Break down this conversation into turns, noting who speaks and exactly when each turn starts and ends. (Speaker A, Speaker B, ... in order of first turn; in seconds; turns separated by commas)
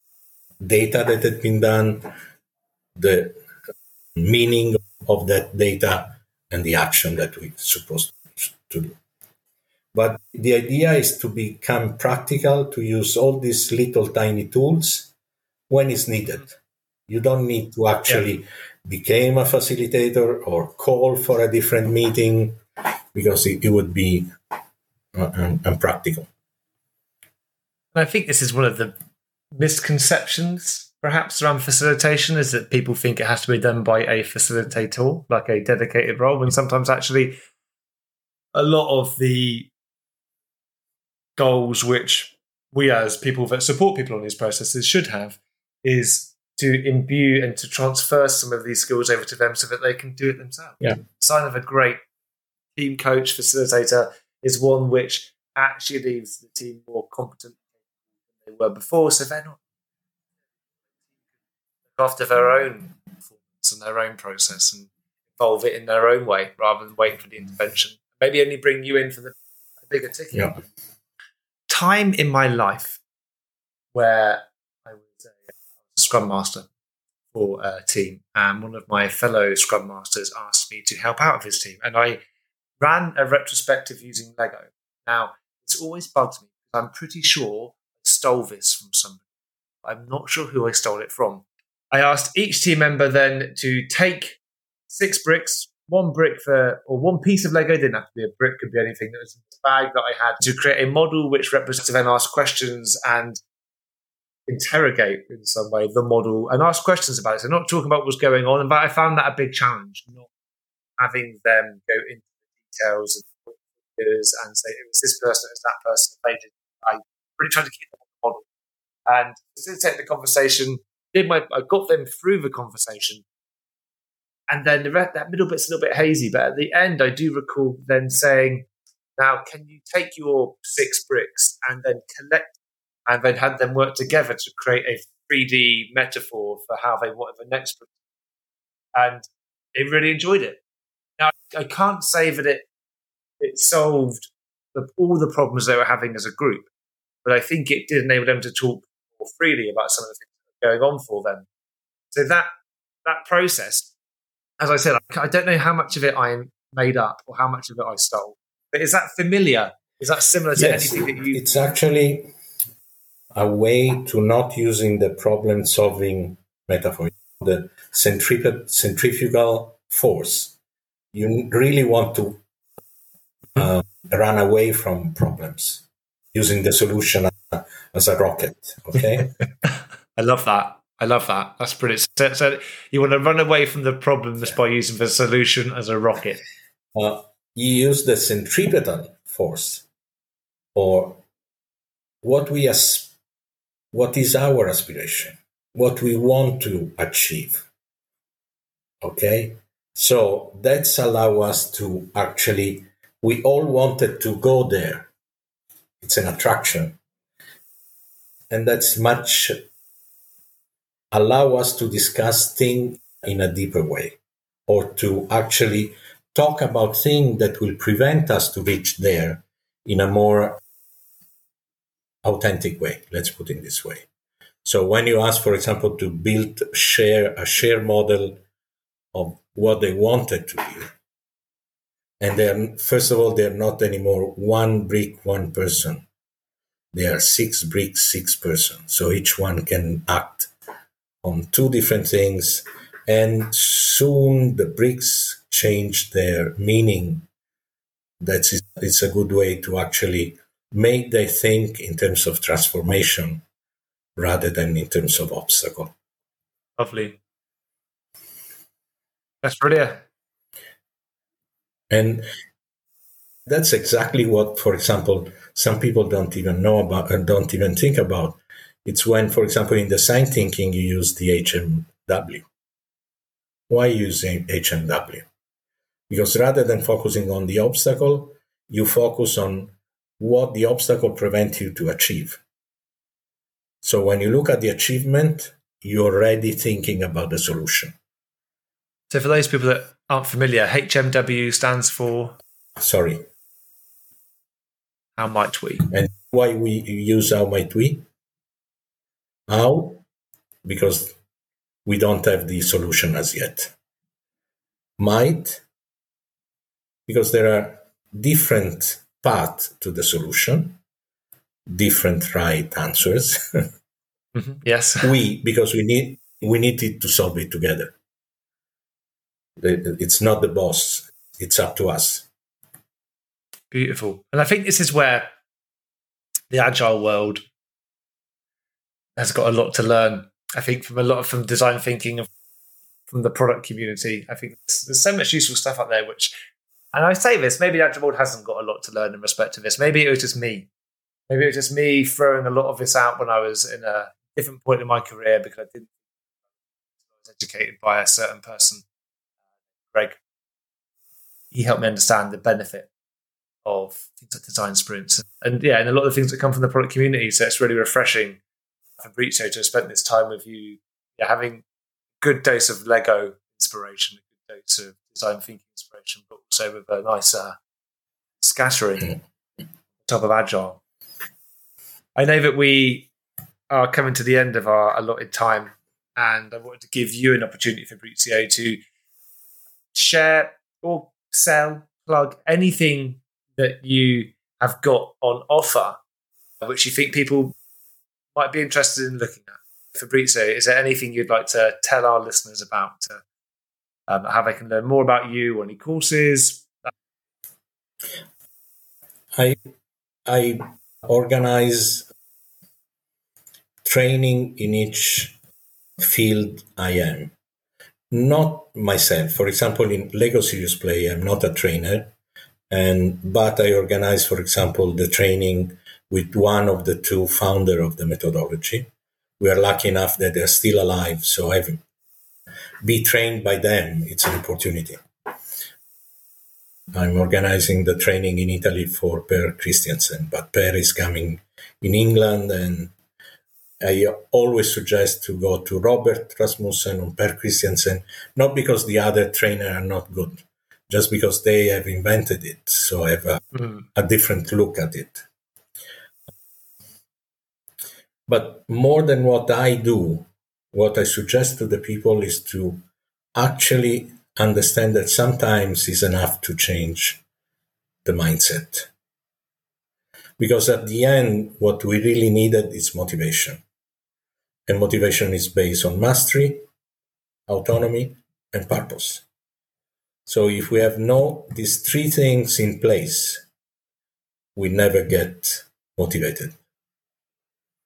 Speaker A: 0.6-2.1, Speaker A: 3.0-3.4, Speaker A: 4.2-9.0, Speaker A: 9.9-15.1, Speaker A: 15.7-22.6, Speaker A: 23.1-24.3, Speaker A: 25.1-26.3, Speaker B: 27.9-28.9, Speaker B: 29.6-37.4, Speaker B: 38.5-39.7, Speaker B: 41.4-52.0, Speaker B: 52.8-57.6, Speaker B: 58.4-59.6, Speaker B: 62.0-63.0, Speaker B: 63.5-69.3, Speaker B: 69.9-70.6, Speaker A: 70.3-70.6, Speaker B: 71.7-73.0, Speaker B: 73.9-76.7, Speaker B: 77.3-82.2, Speaker B: 82.8-89.2, Speaker B: 89.8-103.4, Speaker B: 104.5-110.3, Speaker B: 111.0-118.5, Speaker B: 119.1-123.2, Speaker B: 124.5-137.9, Speaker B: 138.9-140.6, Speaker B: 141.2-142.7, Speaker B: 143.4-146.7, Speaker B: 147.2-151.5, Speaker B: 152.1-152.5, Speaker B: 153.1-153.9, Speaker B: 154.6-161.6, Speaker A: 160.6-162.3, Speaker A: 163.3-170.6, Speaker A: 171.1-172.4, Speaker A: 173.6-179.4, Speaker B: 179.7-186.4, Speaker A: 186.9-189.9, Speaker A: 190.8-191.2, Speaker A: 192.2-193.2, Speaker A: 193.9-197.7, Speaker A: 199.0-205.1, Speaker A: 206.0-207.0, Speaker A: 208.5-209.6, Speaker A: 211.1-220.6, Speaker A: 222.2-224.1, Speaker A: 224.6-228.4, Speaker A: 229.1-230.9, Speaker A: 232.2-236.1, Speaker A: 236.9-240.5, Speaker A: 241.2-247.3, Speaker A: 248.2-253.4, Speaker A: 254.2-255.9, Speaker B: 256.8-257.2, Speaker B: 259.4-260.0, Speaker A: 261.9-262.3, Speaker A: 263.5-272.5, Speaker A: 273.7-275.3, Speaker A: 276.1-282.4, Speaker A: 283.8-287.9, Speaker B: 289.1-292.4, Speaker A: 292.8-293.3, Speaker B: 295.2-295.9, Speaker A: 295.9-298.1, Speaker A: 299.5-300.0, Speaker A: 300.6-301.2, Speaker A: 301.9-303.7, Speaker A: 305.0-305.6, Speaker A: 307.1-310.8, Speaker A: 311.7-313.7, Speaker B: 314.4-315.1, Speaker A: 315.0-317.9, Speaker A: 319.6-322.3, Speaker B: 323.7-325.3, Speaker B: 326.5-327.4, Speaker B: 329.2-332.3, Speaker B: 333.1-336.3, Speaker B: 336.9-340.7, Speaker B: 341.3-345.9, Speaker B: 347.2-348.9, Speaker B: 349.9-350.2, Speaker B: 351.5-352.9, Speaker B: 353.6-358.4, Speaker B: 359.0-361.6, Speaker B: 362.2-367.6, Speaker B: 368.4-369.2, Speaker B: 370.0-370.8, Speaker B: 372.2-373.1, Speaker B: 373.7-378.8, Speaker B: 379.9-386.0, Speaker B: 386.6-387.5, Speaker B: 388.4-393.2, Speaker B: 394.1-396.9, Speaker A: 400.3-402.1, Speaker A: 403.9-405.4, Speaker A: 406.0-407.3, Speaker A: 408.1-412.1, Speaker A: 412.7-421.8, Speaker A: 422.8-425.0, Speaker A: 426.9-432.9, Speaker A: 433.8-445.2, Speaker A: 448.3-452.8, Speaker A: 453.4-457.2, Speaker A: 458.1-458.9, Speaker A: 460.4-463.6, Speaker A: 464.7-466.6, Speaker A: 467.5-469.2, Speaker A: 470.3-473.4, Speaker A: 474.6-476.6